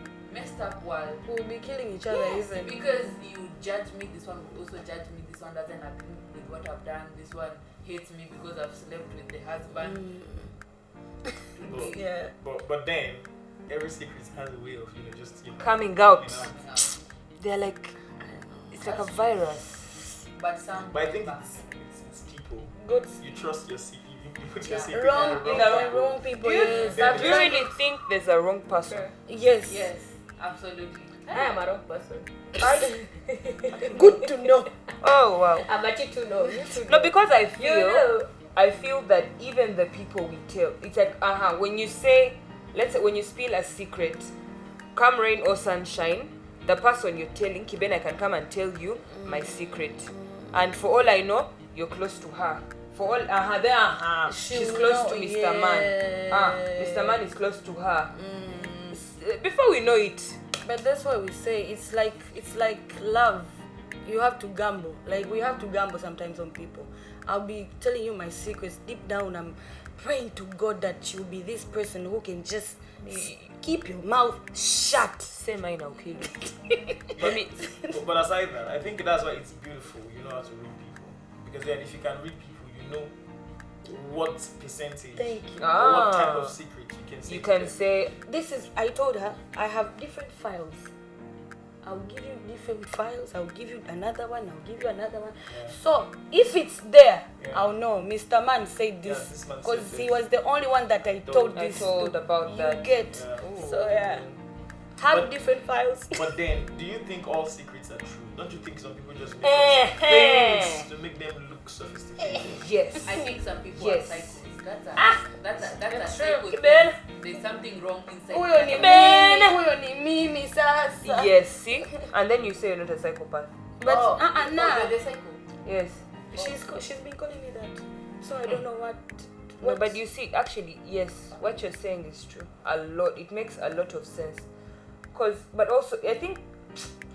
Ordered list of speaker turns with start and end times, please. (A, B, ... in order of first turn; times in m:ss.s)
0:00.3-0:01.2 A
0:01.3-0:02.7 B
0:02.1-0:10.1 A
0:09.8-0:10.5 B
0:11.6-0:12.1 A
0:11.7-0:16.5 C
0:11.7-0:12.3 B
0:15.6-0:16.6 D
0:16.3-0:17.0 A
0:17.4-0:18.0 D
0:18.2-0:19.2 B
0:18.7-0:20.0 D
0:20.4-0:21.5 A
0:20.9-0:27.6 C
0:22.8-0:23.2 B
0:24.6-0:27.2 A
0:24.9-0:27.7 B
0:26.4-0:29.1 D
0:28.9-0:29.1 E
0:29.3-0:29.9 B
0:29.7-0:31.5 A
0:31.3-0:34.7 E
0:32.6-0:33.0 D
0:33.8-0:34.7 B
0:35.0-0:35.7 D
0:35.6-0:38.3 E
0:36.4-0:36.7 B
0:36.8-0:44.3 D
0:45.0-0:58.2 D
0:49.2-0:49.5 B
0:50.1-0:50.5 B
0:54.3-0:57.2 B
0:58.1-0:59.0 B
0:58.9-1:00.4 D
1:00.6-1:15.4 B
1:13.0-1:13.5 D
1:15.3-1:16.4 D
1:16.5-1:18.0 B
1:17.2-1:17.5 D
1:17.2-1:23.1 C
1:23.8-1:27.8 C
1:25.2-1:25.8 B
1:25.6-1:26.6 D
1:27.3-1:28.1 D
1:28.2-1:30.9 B
1:31.8-1:44.2 B
1:35.5-1:35.8 C
1:39.0-1:40.2 C
1:41.0-1:41.7 C
1:41.5-1:44.4 D
1:43.1-1:43.5 C
1:45.0-1:46.3 B
1:45.1-1:45.4 C
1:46.1-1:52.6 C
1:49.4-1:50.9 D
1:52.5-1:53.2 D
1:53.0-1:59.2 A
1:53.8-1:54.4 D
1:55.0-1:55.3 D
1:55.9-1:57.0 D
1:58.3-2:01.4 B
1:58.7-1:59.6 D
2:01.0-2:03.5 D
2:03.8-2:05.0 B
2:03.8-2:05.4 A
2:05.6-2:06.0 D
2:06.3-2:10.0 B
2:06.4-2:06.6 A
2:09.6-2:14.5 D
2:15.1-2:16.9 D